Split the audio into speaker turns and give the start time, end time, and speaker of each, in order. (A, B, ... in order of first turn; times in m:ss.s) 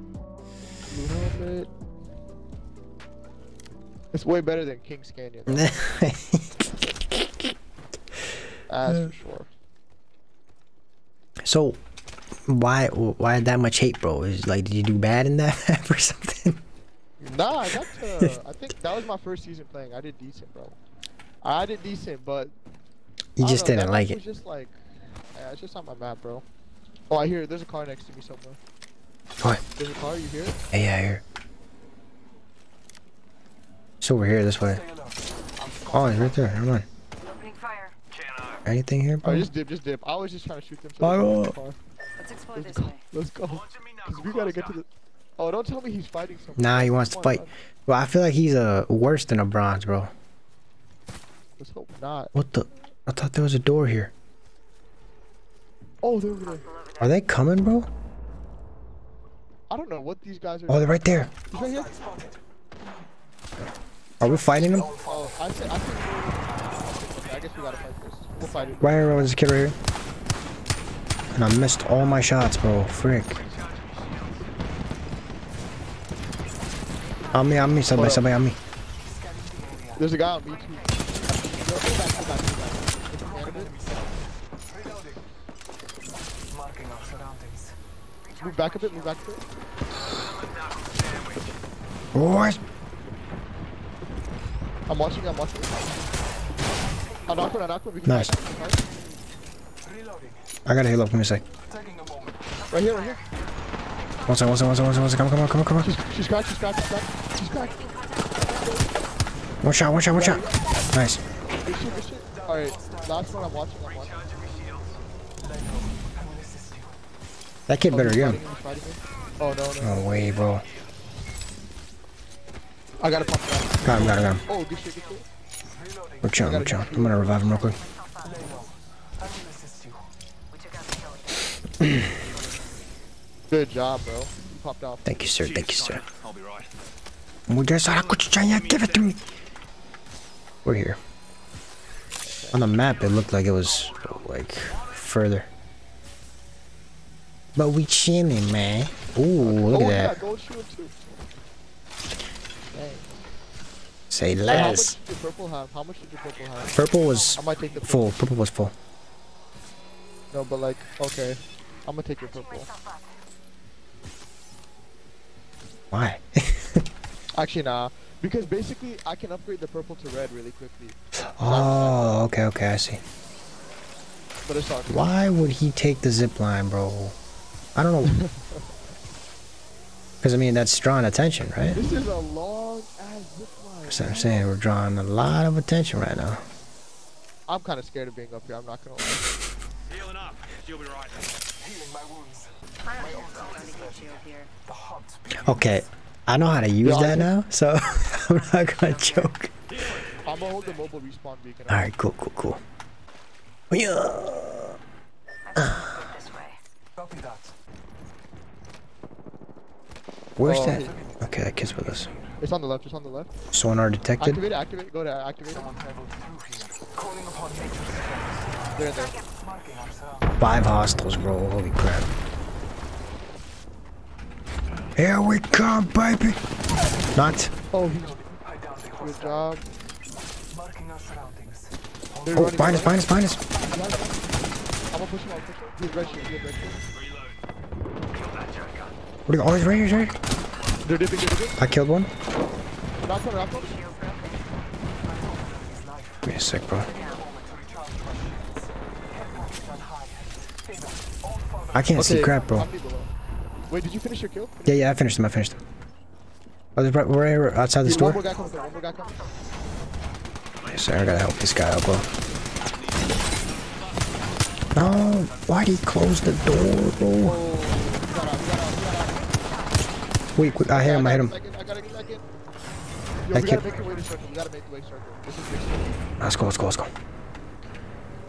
0:00.9-0:01.7 A
0:04.1-0:05.7 A
0:05.5-0:07.5 B
0:08.7-0:09.5 A
0:11.4-0:11.8 B
0:12.5-0:16.6 B
0:17.2-0:20.8 A
0:21.4-0:22.5 A
0:23.4-0:24.2 B
0:23.4-0:24.8 A
0:25.3-0:26.4 A
0:27.1-0:28.6 A
0:29.8-0:30.6 A
0:30.7-0:31.2 B
0:34.0-0:34.8 B
0:34.9-0:36.4 C
0:35.9-0:36.8 B
0:37.2-0:37.9 D
0:38.6-0:39.5 B
0:39.2-0:41.8 A
0:41.0-0:41.5 B
0:42.2-0:43.0 D
0:42.5-0:47.5 A
0:46.6-0:50.1 B
0:51.6-0:52.3 A
0:52.3-0:54.1 B
0:56.0-0:56.7 A
0:56.8-0:57.0 D
0:57.0-0:57.9 B
0:59.7-1:01.9 A
1:00.7-1:01.3 B
1:01.6-1:02.4 C
1:04.2-1:04.9 B
1:04.4-1:05.2 C
1:05.0-1:09.1 A
1:08.8-1:09.8 B
1:11.3-1:13.4 B
1:13.6-1:14.4 C
1:17.3-1:18.6 B
1:17.9-1:18.3 A
1:19.1-1:20.0 C
1:20.0-1:23.8 A
1:23.3-1:24.2 C
1:24.7-1:25.2 C
1:26.5-1:27.7 C
1:28.2-1:29.0 D
1:28.4-1:29.4 A
1:30.5-1:31.4 C
1:32.1-1:32.6 B
1:34.9-1:35.9 A
1:37.2-1:38.8 A
1:38.0-1:38.3 B
1:39.8-1:40.3 C
1:40.6-1:41.4 B
1:41.7-1:42.5 C
1:42.7-1:43.2 A
1:44.2-1:45.9 B
1:45.8-1:47.8 A
1:47.7-1:48.5 D
1:48.4-1:49.0 A
1:49.6-1:51.2 B
1:50.1-1:50.6 A
1:51.6-1:54.3 A
1:52.4-1:53.1 C
1:54.3-1:54.8 C
1:55.4-1:57.0 C
1:57.7-1:58.4 B
1:57.9-2:00.0 A
1:59.8-2:00.7 B
2:03.0-2:05.2 A
2:03.8-2:04.4 B
2:05.8-2:06.2 C
2:06.2-2:07.8 B
2:06.4-2:07.6 A
2:07.8-2:08.3 D
2:08.3-2:10.0 C
2:10.5-2:11.5 D
2:11.8-2:12.1 B
2:13.5-2:15.0 A
2:15.0-2:16.0 B
2:16.0-2:16.6 C
2:17.5-2:19.2 B
2:20.6-2:21.0 B
2:22.2-2:22.6 A
2:22.5-2:25.5 B
2:27.6-2:30.2 B
2:29.4-2:30.9 A
2:32.7-2:33.1 A
2:34.1-2:35.0 B
2:34.4-2:38.1 A
2:36.7-2:38.7 B
2:40.3-2:42.7 A
2:42.6-2:43.0 D
2:45.9-2:46.8 B
2:47.3-2:52.2 A
2:51.4-2:53.0 B
2:54.4-2:55.1 A
2:54.9-2:57.2 B
2:57.7-2:58.2 B
2:58.1-2:58.6 A
3:00.2-3:01.8 B
3:01.7-3:04.5 A
3:03.9-3:06.4 B
3:07.5-3:09.2 A
3:10.0-3:15.8 C
3:12.9-3:14.5 D
3:15.4-3:19.5 B
3:16.8-3:17.3 A
3:18.5-3:19.3 D
3:20.1-3:21.9 A
3:21.7-3:22.6 B
3:23.7-3:24.8 B
3:25.5-3:26.6 D
3:25.6-3:26.1 B
3:27.0-3:27.5 C
3:30.4-3:32.1 B
3:30.4-3:31.0 A
3:30.7-3:31.2 C
3:32.4-3:33.3 A
3:33.5-3:34.4 B
3:34.2-3:35.7 A
3:35.7-3:38.7 C
3:38.7-3:39.2 A
3:39.4-3:40.4 C
3:40.4-3:42.1 B
3:45.0-3:46.4 B
3:47.1-3:47.5 B
3:47.7-3:48.2 A
3:48.3-3:49.2 C
3:48.9-3:49.7 A
3:50.5-3:52.3 C
3:52.2-3:53.0 A
3:52.3-3:53.4 B
3:53.6-3:56.8 A
3:58.4-3:58.8 C
3:59.3-4:00.2 B
4:00.8-4:01.6 A
4:01.6-4:02.1 B
4:03.0-4:03.8 A
4:03.6-4:04.5 D
4:05.1-4:06.2 C
4:06.2-4:06.9 B
4:06.9-4:07.2 D
4:07.0-4:11.8 C
4:11.7-4:12.7 B
4:11.9-4:13.1 A
4:13.7-4:14.7 A
4:14.6-4:15.6 B
4:16.8-4:18.2 B
4:17.8-4:19.2 A
4:18.3-4:19.3 D
4:20.7-4:22.0 B
4:24.7-4:27.4 B
4:27.2-4:29.2 A
4:30.4-4:31.3 B
4:30.6-4:32.2 A
4:33.2-4:36.0 A
4:33.3-4:33.8 B
4:36.2-4:36.9 B